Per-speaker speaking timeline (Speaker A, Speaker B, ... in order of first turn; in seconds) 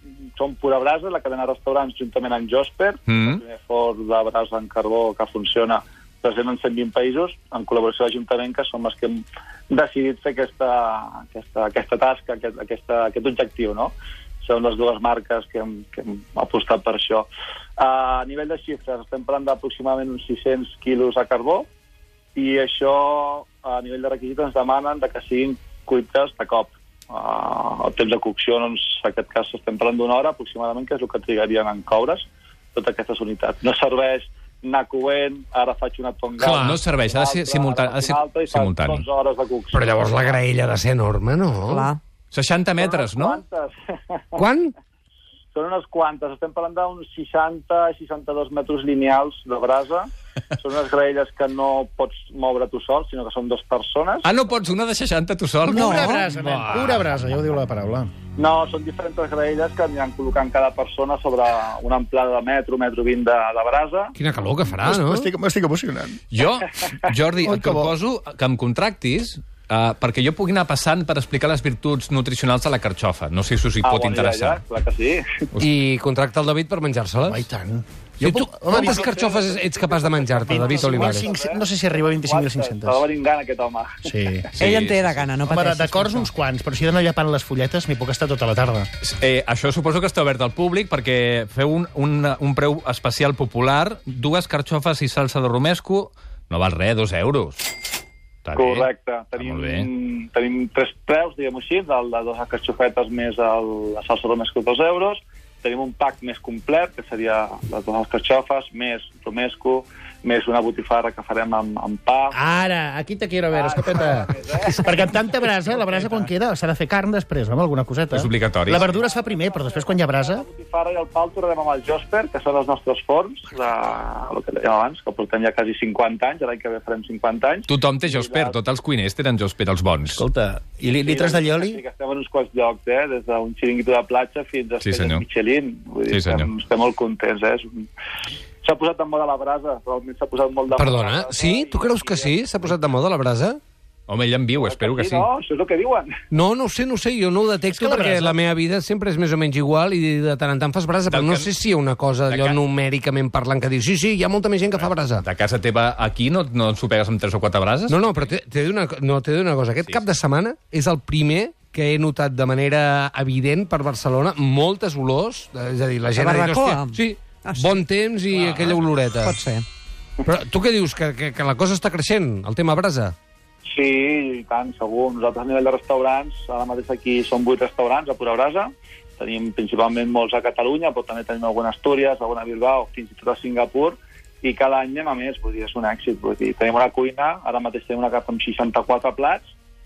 Speaker A: 0.4-21.7, 22.4-40.4, 42.8-44.4, 45.5-50.1, 50.6-54.3, 58.4-64.1, 73.8-75.2, 78.7-81.6, 82.1-84.0, 98.5-112.3, 113.5-114.9, 118.7-128.6, 130.8-137.9, 138.6-142.9, 144.6-146.1, 173.7-189.4
Speaker B: 3.0-3.4, 36.4-39.1, 42.3-43.4, 54.2-56.1, 66.3-74.6, 84.5-85.3, 89.0-97.7, 98.4-99.9, 118.1-118.9, 127.7-130.2, 134.8-135.2, 136.1-136.5, 144.1-145.3, 151.1-151.5, 152.3-152.6, 154.7-158.3, 168.4-168.8
Speaker C: 39.7-41.9, 44.4-44.7, 56.1-57.1, 64.2-65.3, 75.6-77.5, 78.2-81.3, 140.7-143.6, 146.3-155.2, 157.9-169.4, 170.2-173.1
Speaker D: 41.7-42.0, 55.7-56.2, 84.6-86.3, 166.1-167.8, 169.2-169.6
Speaker E: 55.6-58.1, 64.8-66.2, 67.3-67.9, 77.2-79.2, 80.5-83.0, 84.0-84.5, 85.4-88.9, 112.3-120.5, 130.2-131.8, 147.7-148.4